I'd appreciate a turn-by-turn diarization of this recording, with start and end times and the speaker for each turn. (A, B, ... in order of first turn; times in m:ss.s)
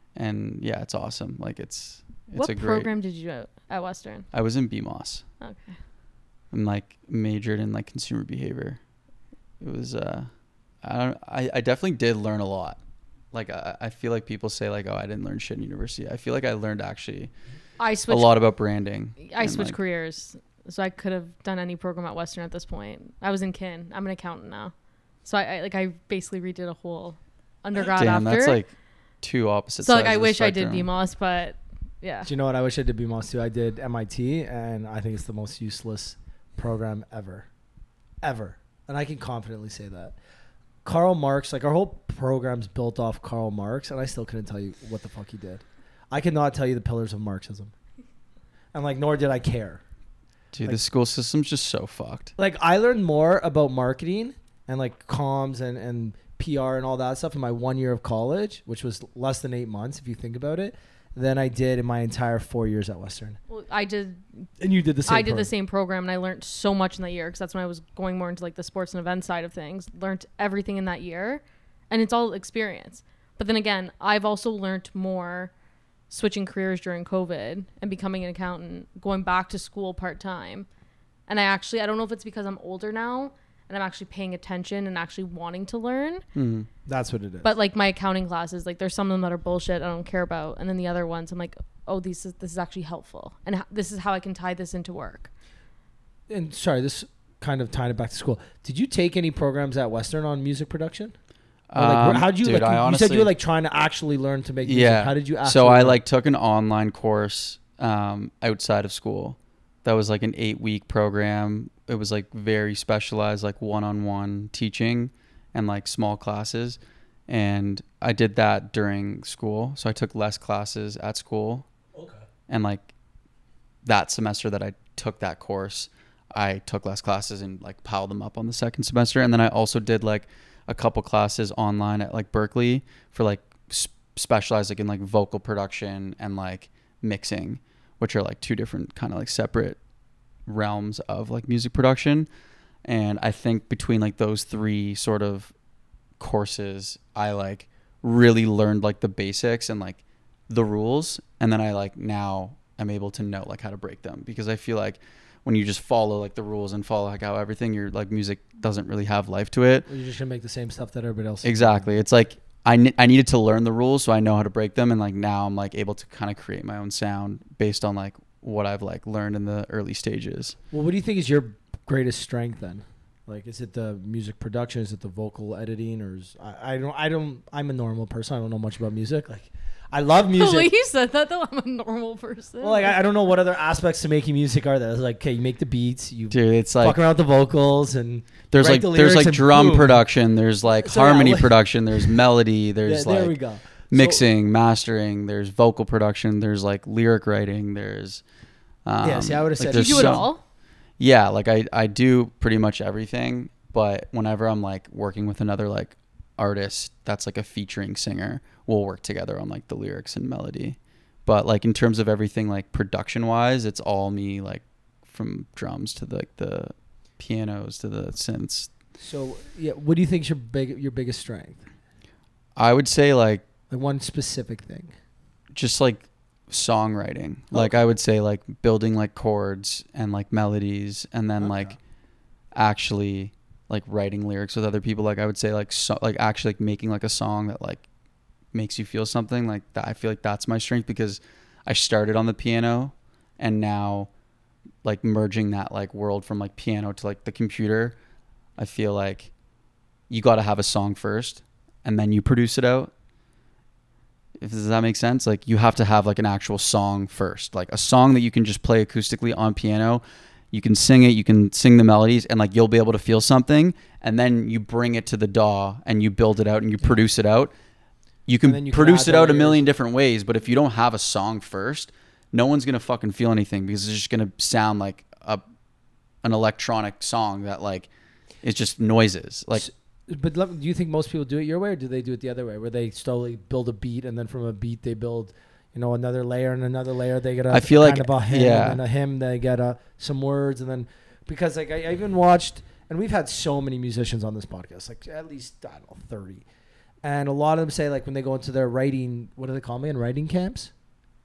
0:00.2-0:02.9 A
0:02.4-0:04.3 B
0:04.3-0:05.2 A
0:05.4-0:05.8 B
0:06.5-0:08.8 A
0:09.6-0:10.3 A
0:10.8-0:12.8 A
0:13.3-0:17.3 A
0:17.8-0:18.4 B
0:18.1-0:19.8 A
0:19.2-0:24.7 B
0:25.2-0:28.6 B
0:28.0-0:28.7 A
0:29.2-0:30.9 A
0:29.8-0:32.3 B
0:32.2-0:37.5 C
0:38.2-0:40.2 C
0:40.8-0:47.7 C
0:48.7-0:49.8 C
0:50.5-0:52.3 A
0:52.4-1:03.4 C
1:03.5-1:04.2 B
1:04.6-1:05.5 C
1:05.1-1:15.5 B
1:16.1-1:20.7 B
1:21.3-1:26.2 B
1:26.4-1:26.7 A
1:26.9-1:27.5 C
1:27.4-1:35.3 B
1:36.3-1:41.2 C
1:41.7-1:43.3 A
1:41.8-1:46.0 C
1:44.6-2:01.7 A
2:01.9-2:02.2 C
2:02.5-2:02.9 A
2:03.8-2:19.8 A
2:20.5-2:22.3 A
2:22.9-2:25.5 A
2:26.2-2:39.9 A
2:39.9-2:41.9 C
2:41.4-2:50.6 A
2:50.7-3:00.7 C
3:00.4-3:03.0 B
3:02.6-3:10.0 C
3:06.3-3:07.0 A
3:08.5-3:13.4 A
3:10.8-3:12.1 C
3:12.8-3:14.2 C
3:13.9-3:18.2 A
3:18.8-3:20.3 A
3:19.0-3:20.3 C
3:19.7-3:20.4 B
3:21.0-3:38.7 A
3:39.0-3:41.7 C
3:42.6-3:43.4 A
3:43.7-3:44.9 C
3:45.5-3:51.8 A
3:51.4-3:51.8 C
3:52.6-3:57.8 A
3:58.5-4:04.1 A
4:04.8-4:08.0 A
4:08.6-4:09.3 A
4:10.1-4:12.9 A
4:14.4-4:27.5 A
4:28.3-4:35.4 A
4:28.4-4:29.7 C
4:36.2-4:37.9 A
4:38.4-4:39.7 A
4:39.6-4:56.4 C
4:47.5-4:48.8 A
4:57.0-5:00.7 C